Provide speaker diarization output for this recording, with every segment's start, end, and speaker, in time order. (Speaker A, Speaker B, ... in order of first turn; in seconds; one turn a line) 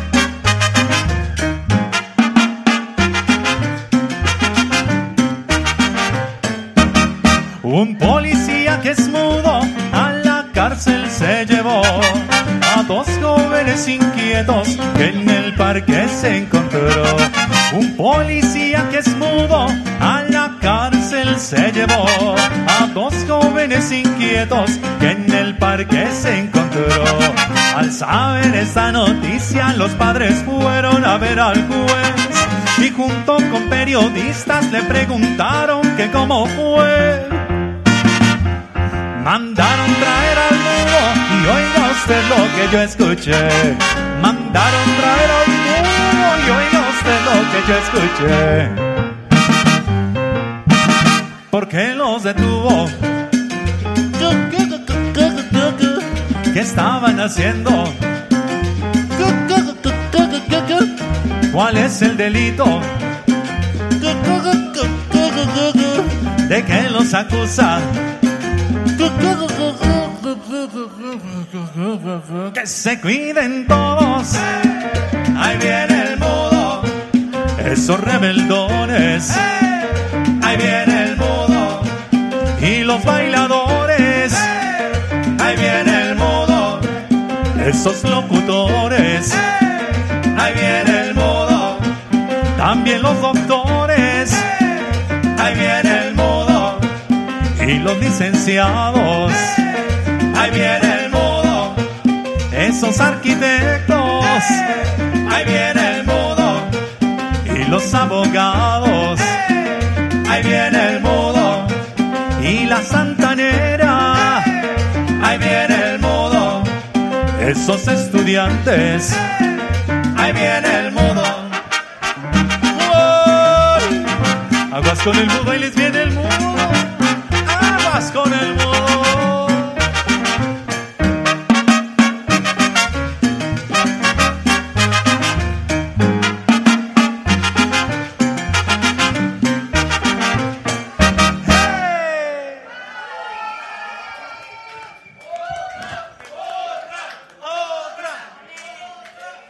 Speaker A: 7.6-37.5
Speaker A: 39.1-48.9
Speaker A: 51.5-53.0
Speaker A: 54.2-58.0
Speaker A: 59.1-61.0
Speaker A: 61.5-62.9
Speaker A: 64.0-67.9
Speaker A: 69.0-74.5
Speaker A: 75.3-76.9
Speaker A: 77.6-79.6
Speaker A: 80.4-81.9
Speaker A: 82.6-84.5
Speaker A: 85.4-86.9
Speaker A: 87.6-89.4
Speaker A: 90.3-91.8
Speaker A: 92.6-94.5
Speaker A: 95.4-96.9
Speaker A: 97.5-99.6
Speaker A: 100.3-101.8
Speaker A: 102.5-104.7
Speaker A: 105.3-106.7
Speaker A: 107.4-109.4
Speaker A: 110.2-111.8
Speaker A: 112.4-114.6
Speaker A: 115.2-116.7
Speaker A: 117.4-119.2
Speaker A: 120.1-121.6
Speaker A: 122.7-124.1
Speaker A: 124.7-129.7